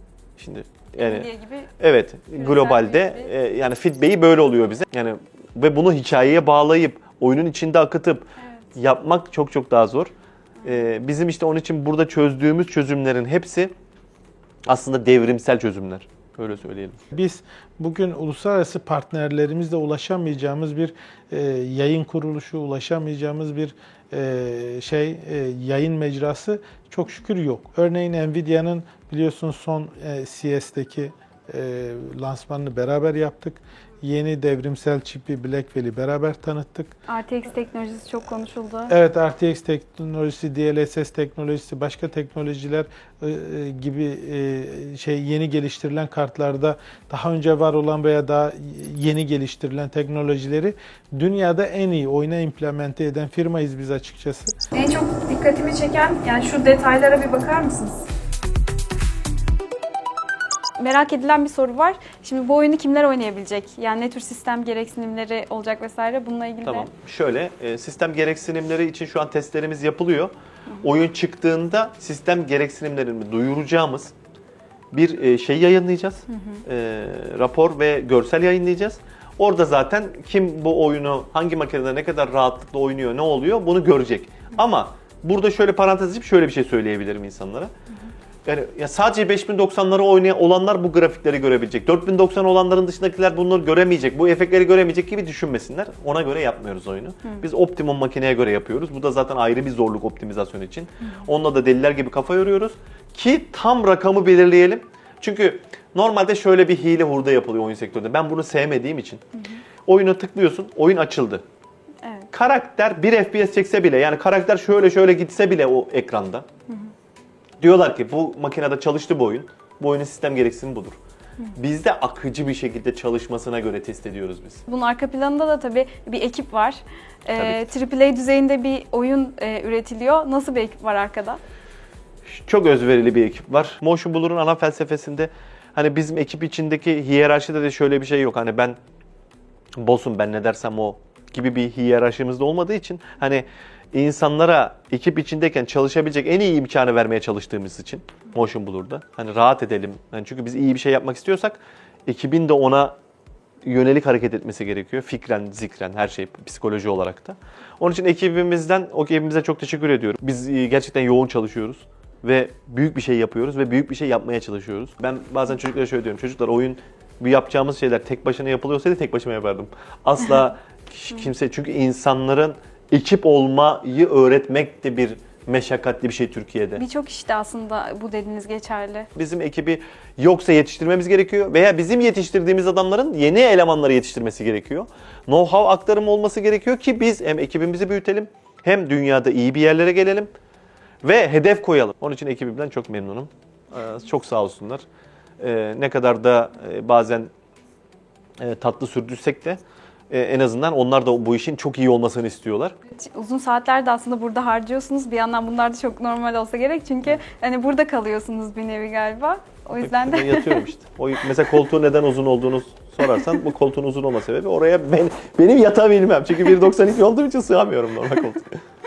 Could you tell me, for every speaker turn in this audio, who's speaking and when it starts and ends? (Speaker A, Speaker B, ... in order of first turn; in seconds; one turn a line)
Speaker A: 0.4-1.3
Speaker B: 1.0-1.7
Speaker A: 1.8-10.1
Speaker B: 2.4-3.3
Speaker A: 10.6-13.7
Speaker A: 14.7-17.0
Speaker C: 17.1-36.9
Speaker B: 37.1-39.0
Speaker C: 38.9-54.6
Speaker B: 54.7-58.1
Speaker B: 60.8-66.9
Speaker A: 66.7-74.1
Speaker A: 74.9-87.7
Speaker B: 76.3-76.6
Speaker A: 88.5-109.2
Speaker A: 109.9-111.4
Speaker B: 112.0-112.3
Speaker A: 112.3-116.5
Speaker A: 117.6-121.0
Speaker A: 121.5-124.6
Speaker B: 124.7-131.4
Speaker A: 127.4-127.7
Speaker A: 132.3-138.8
Speaker A: 139.8-153.0
Speaker A: 153.6-176.8
Speaker B: 176.8-179.1
Speaker A: 179.2-190.3
Speaker A: 191.0-194.8
Speaker A: 195.4-197.3
Speaker A: 198.4-202.8
Speaker B: 203.0-210.7
Speaker A: 209.8-218.6